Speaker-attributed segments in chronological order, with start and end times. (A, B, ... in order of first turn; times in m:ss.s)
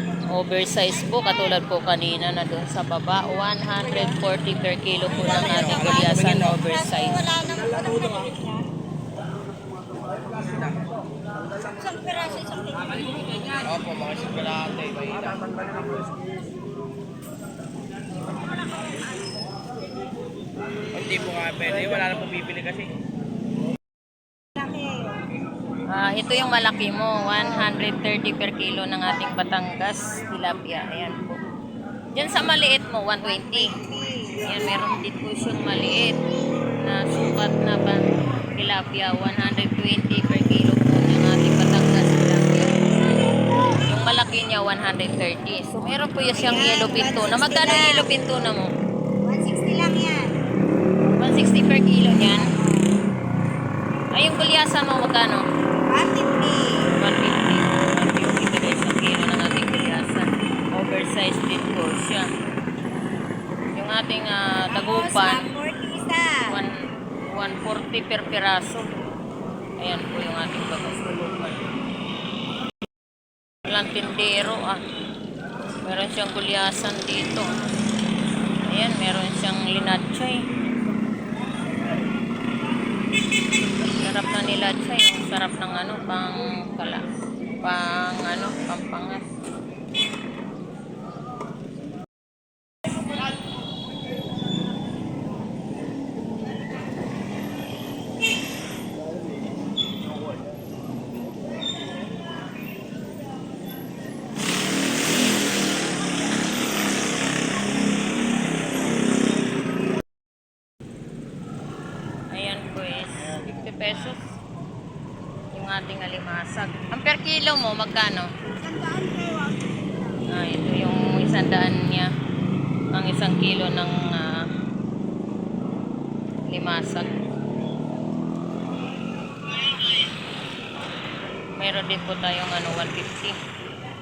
0:00.3-0:07.3 A
0:05.3-0:08.6 B
0:11.6-0:13.6 B
0:13.6-0:15.4 C
0:20.9-0:22.9 C
0:24.6-0:25.1 B
0:25.9-0:31.4 A
0:32.1-0:33.7 A
0:33.4-0:34.5 B
0:34.4-0:36.2 A
0:36.8-0:38.0 A
0:38.5-0:42.7 A
0:43.7-0:48.7 A
0:46.3-0:48.1 B
0:49.2-0:50.4 B
0:51.2-0:52.5 A
0:54.1-0:55.4 A
0:55.9-0:56.9 B
0:57.0-1:02.3 A
1:03.7-1:05.5 A
1:04.7-1:06.5 B
1:06.5-1:06.7 A
1:07.3-1:08.8 A
1:09.8-1:11.6 A
1:13.6-1:14.8 A
1:15.8-1:17.5 A
1:18.7-1:20.4 A
1:23.8-1:27.1 A
1:27.6-1:29.2 A
1:52.3-1:54.2 A
1:55.5-1:58.3 A
2:00.3-2:02.1 A
2:02.9-2:04.5 A
2:06.5-2:07.1 A
2:11.5-2:13.3 A